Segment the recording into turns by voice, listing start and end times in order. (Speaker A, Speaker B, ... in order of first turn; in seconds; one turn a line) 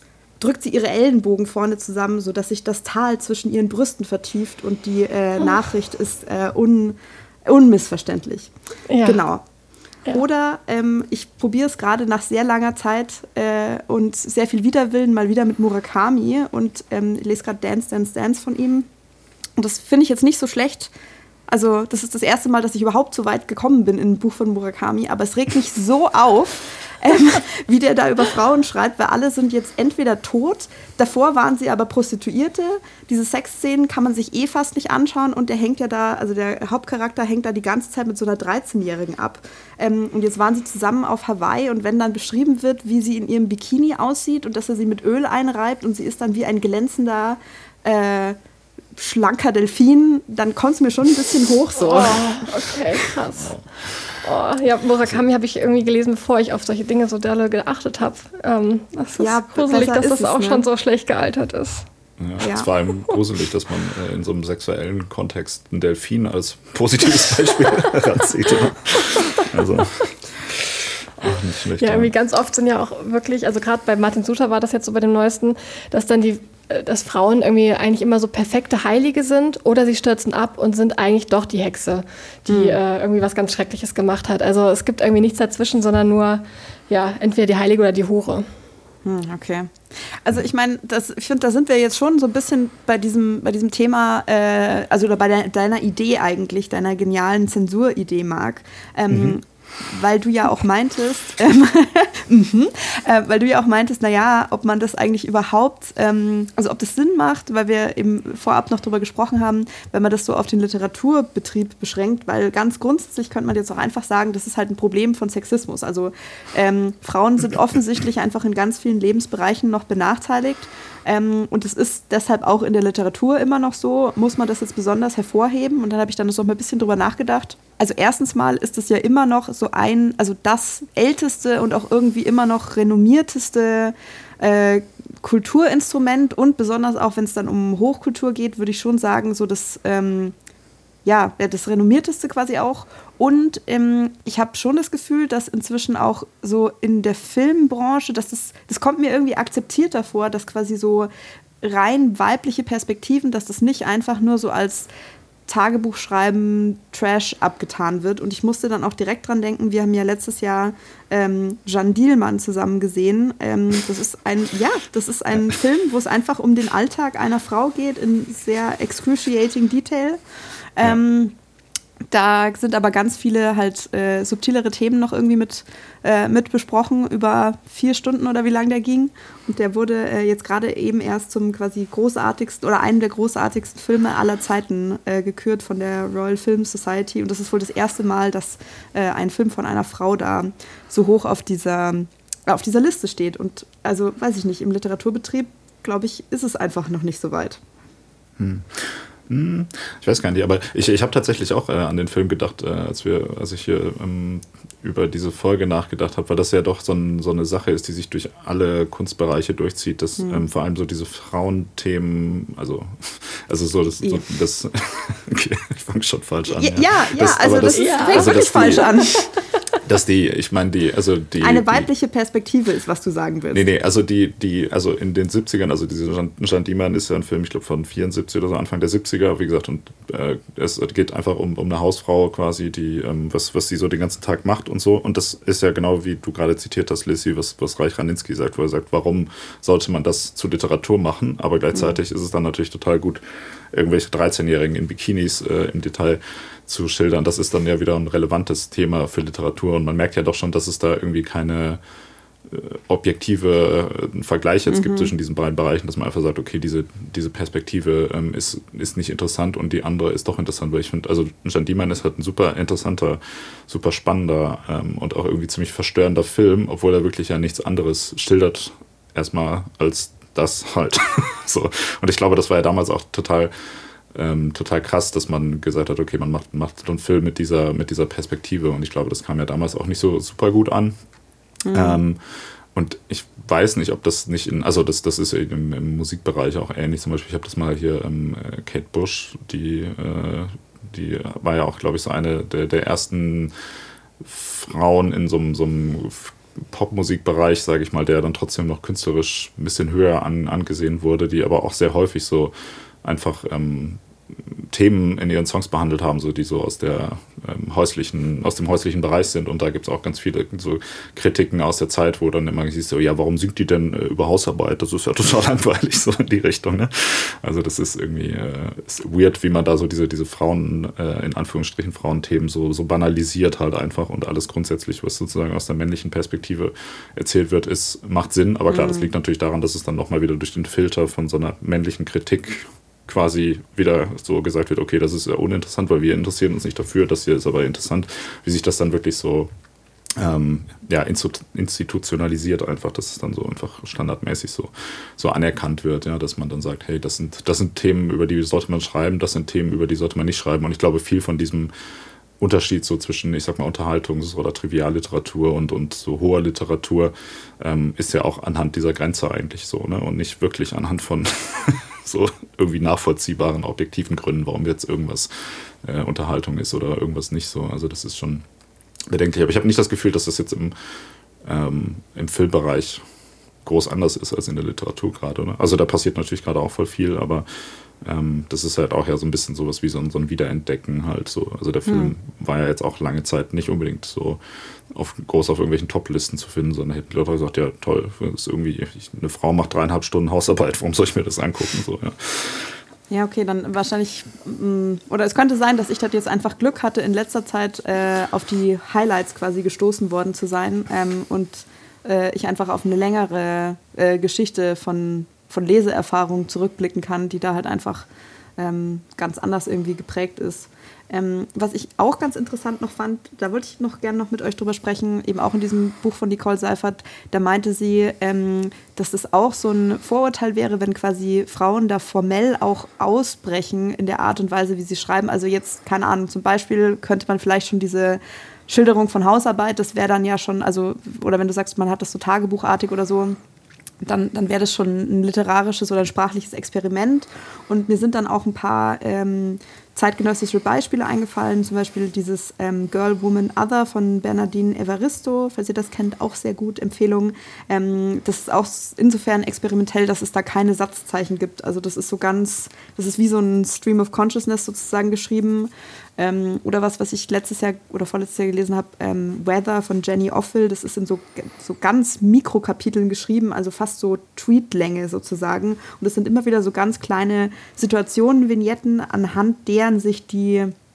Speaker A: 0.4-8.5
Speaker B: 8.9-9.2
Speaker A: 9.0-9.4
Speaker A: 10.1-18.9
Speaker A: 19.6-20.9
Speaker A: 21.5-48.4
Speaker A: 49.0-52.4
Speaker B: 51.8-53.5
Speaker B: 54.2-61.9
Speaker A: 59.0-60.6
Speaker C: 62.2-70.2
Speaker A: 62.4-62.7
Speaker C: 71.2-72.1
Speaker B: 71.8-88.5
Speaker A: 82.5-82.8
Speaker A: 89.0-140.3
Speaker C: 99.1-99.3
Speaker A: 141.0-151.1
Speaker A: 151.6-154.9
Speaker A: 155.5-170.2
Speaker A: 170.8-171.3
Speaker A: 172.1-197.6
Speaker C: 198.4-218.9
Speaker A: 210.2-210.4
Speaker A: 216.5-219.2
Speaker B: 217.7-219.3
Speaker C: 219.8-221.9
Speaker A: 221.4-223.7
Speaker C: 223.5-243.2
Speaker C: 243.7-251.8
Speaker C: 252.5-273.5
Speaker A: 254.7-255.1
Speaker C: 274.1-280.9
Speaker A: 281.6-282.0
Speaker C: 281.7-282.2
Speaker C: 282.7-293.5
Speaker C: 294.2-339.5
Speaker A: 328.7-329.1
Speaker C: 340.1-351.7
Speaker C: 352.4-365.3
Speaker C: 365.8-368.4
Speaker C: 369.1-370.7
Speaker C: 371.4-373.0
Speaker C: 373.6-377.4
Speaker C: 378.0-392.8
Speaker A: 381.9-382.1
Speaker A: 393.1-433.4
Speaker A: 434.0-470.7